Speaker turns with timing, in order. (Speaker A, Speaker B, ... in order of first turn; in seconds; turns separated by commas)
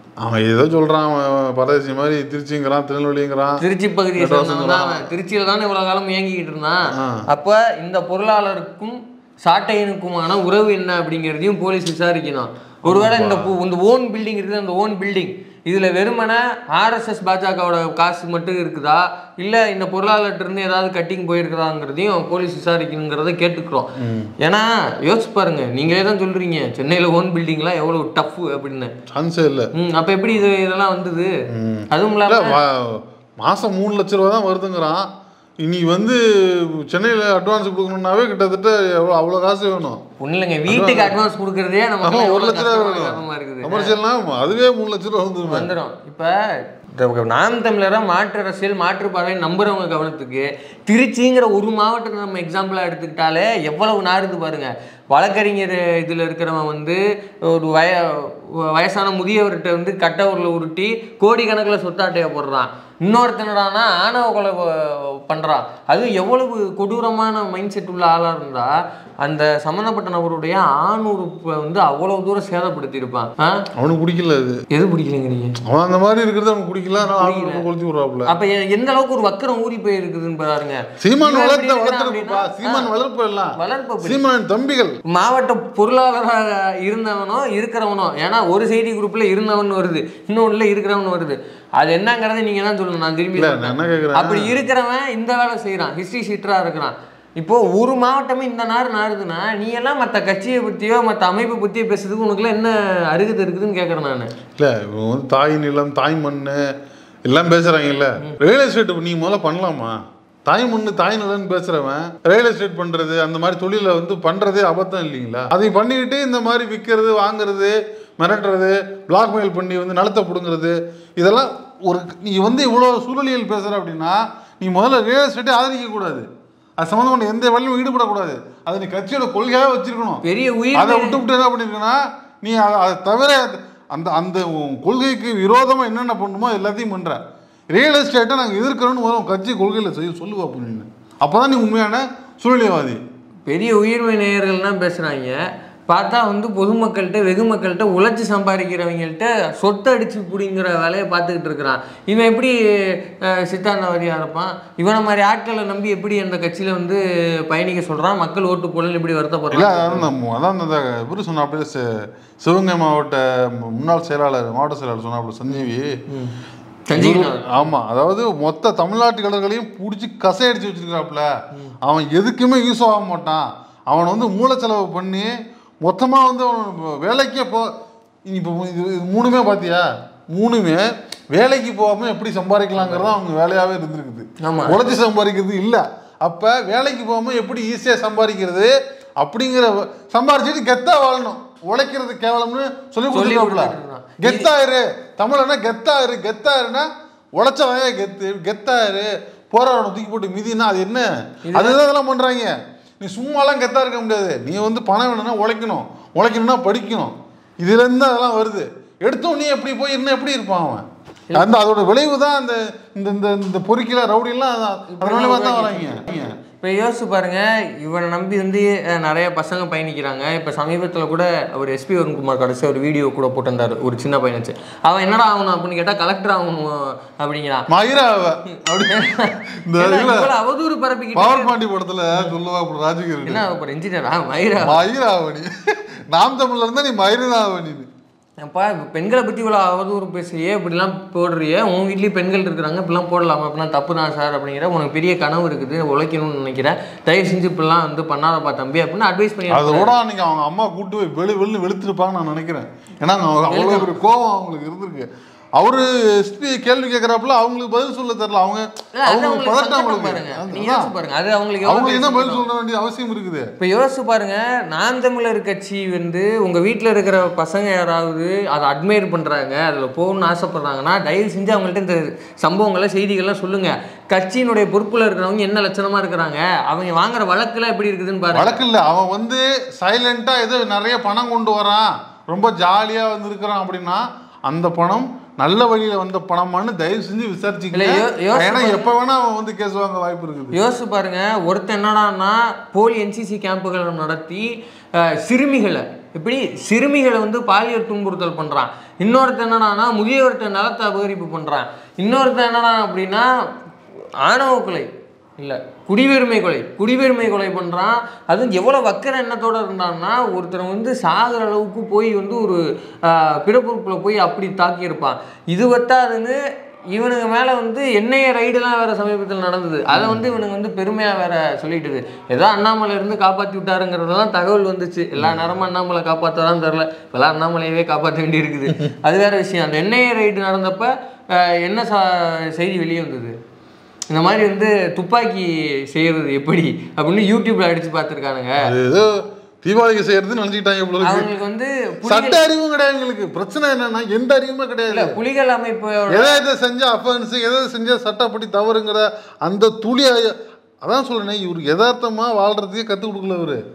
Speaker A: 0.2-3.6, Speaker B: 3.6-28.9, Speaker A: 4.2-5.1, Speaker A: 6.9-7.2, Speaker A: 12.8-13.5, Speaker A: 24.0-24.3, Speaker A: 29.1-29.7, Speaker B: 29.7-31.3, Speaker A: 31.5-35.1, Speaker B: 31.9-32.5, Speaker A: 35.6-40.0, Speaker B: 40.2-43.9, Speaker A: 40.7-41.2, Speaker A: 42.0-45.7, Speaker B: 45.5-73.7, Speaker A: 73.8-74.6, Speaker B: 74.7-75.6, Speaker A: 75.6-78.3, Speaker B: 77.0-77.6, Speaker B: 78.3-82.9, Speaker A: 81.0-85.0, Speaker B: 83.6-84.2, Speaker B: 85.0-104.3, Speaker A: 93.3-94.5, Speaker A: 104.6-106.6, Speaker A: 107.2-126.2, Speaker A: 126.8-130.2, Speaker B: 130.2-131.2, Speaker A: 130.7-137.2, Speaker A: 137.7-143.0, Speaker B: 143.5-160.1, Speaker A: 159.5-165.9, Speaker B: 165.5-166.3, Speaker B: 166.9-167.6, Speaker A: 166.9-171.3, Speaker A: 171.8-177.7, Speaker A: 178.2-210.8, Speaker B: 182.8-183.1, Speaker B: 184.4-184.8, Speaker B: 193.1-194.5, Speaker B: 201.5-201.8, Speaker A: 211.3-216.3, Speaker B: 214.9-227.7, Speaker A: 227.7-230.3, Speaker B: 228.8-231.5, Speaker A: 231.1-233.4, Speaker B: 233.2-234.8, Speaker A: 234.6-237.9, Speaker B: 238.4-249.9, Speaker A: 249.5-260.9, Speaker B: 253.5-253.9, Speaker B: 258.9-262.4, Speaker A: 261.6-263.5, Speaker B: 263.6-278.6, Speaker A: 278.3-290.6, Speaker B: 287.7-288.9, Speaker B: 290.5-303.3, Speaker B: 304.2-316.4, Speaker B: 316.9-333.3, Speaker A: 319.9-320.3, Speaker A: 325.2-325.5, Speaker B: 334.1-338.7, Speaker A: 338.6-341.3, Speaker B: 341.0-342.4, Speaker A: 342.0-345.2, Speaker B: 344.9-346.4, Speaker A: 346.1-353.6